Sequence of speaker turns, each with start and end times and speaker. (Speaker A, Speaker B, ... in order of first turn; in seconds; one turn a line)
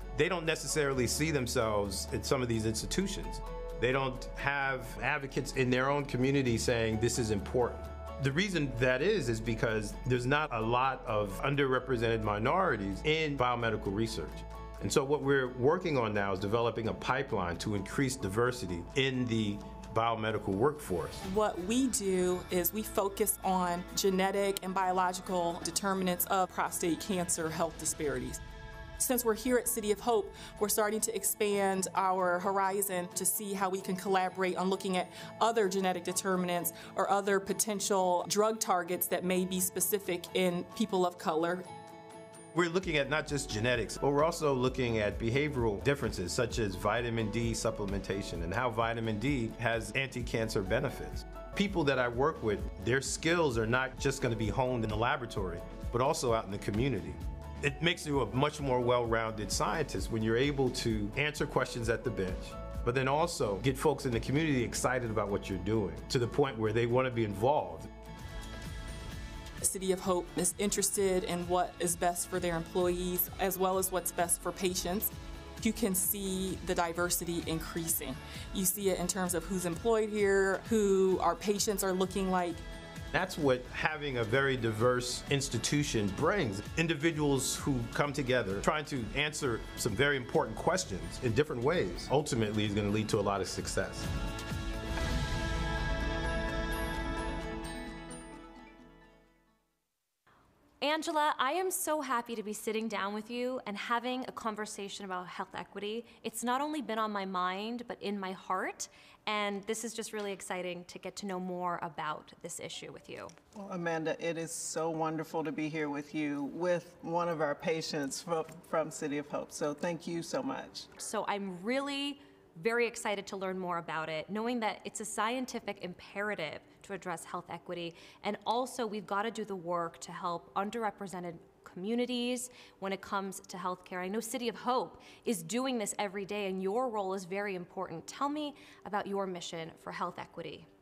Speaker A: 0.1-21.2
Speaker B: 21.2-28.4
Speaker B: 29.0-41.6
Speaker A: 42.5-67.9
Speaker B: 69.6-82.7
Speaker A: 83.1-94.1
Speaker C: 100.8-113.3
Speaker D: 113.5-120.9
Speaker C: 121.0-140.7